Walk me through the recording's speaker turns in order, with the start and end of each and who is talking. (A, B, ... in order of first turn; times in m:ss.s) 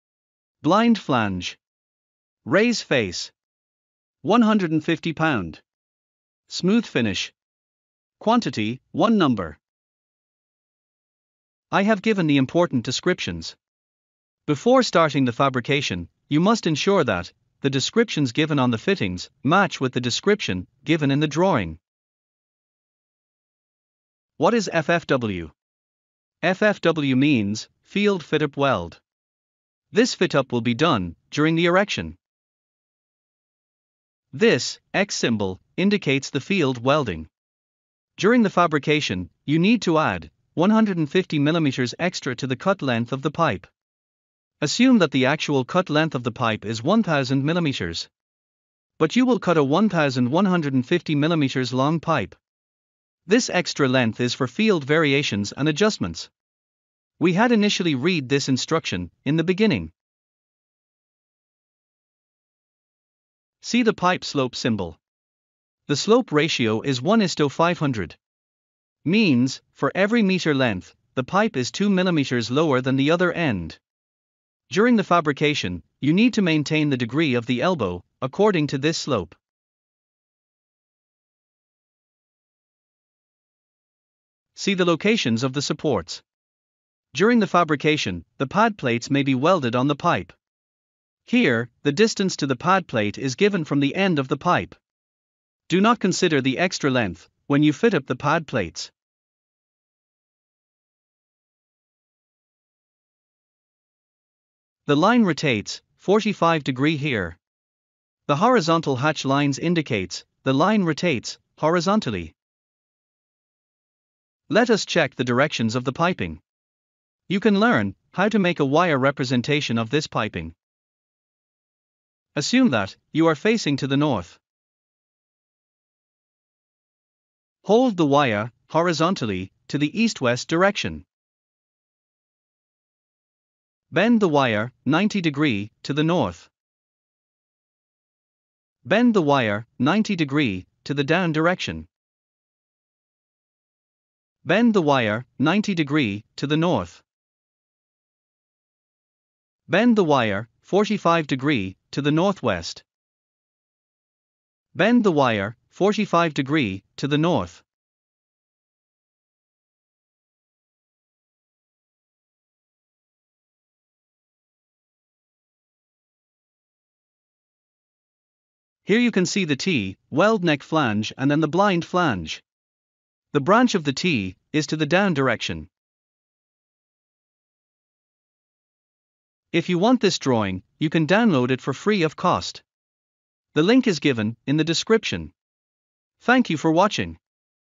0:00.6-0:01.6 A
0:02.4-0:03.3 A
0:04.2-0:05.6 A
0:06.5-0:07.3 A
0:08.2-0:09.6 A
0:11.7-0:13.6 A
0:14.4-0:21.8 A
0:24.4-0:25.5 A
0:26.4-0:29.0 A
0:29.9-0:32.2 A
0:34.3-0:37.3 A
0:38.2-0:43.7 A
0:44.6-0:48.1 A
0:49.0-0:52.4 A
0:53.2-0:56.3 A
0:57.2-0:59.9 A
1:03.6-1:05.0 A
1:05.9-1:08.2 A
1:09.0-1:13.8 A
1:14.7-1:19.4 A
1:24.5-1:26.2 A
1:27.1-1:30.4 A
1:31.2-1:34.8 A
1:35.7-1:38.9 A
1:44.8-1:47.4 A
1:48.3-1:52.3 A
1:54.5-1:56.4 A
1:57.3-2:00.5 A
2:02.3-2:04.4 A
2:07.6-2:11.0 A
2:13.9-2:16.5 A
2:18.8-2:21.9 A
2:24.4-2:27.0 A
2:29.7-2:32.8 A
2:34.7-2:37.6 A
2:48.8-2:52.4 A
2:53.3-2:55.7 A
2:59.5-3:02.6 A
3:03.5-3:05.3 A
3:06.2-3:07.2 A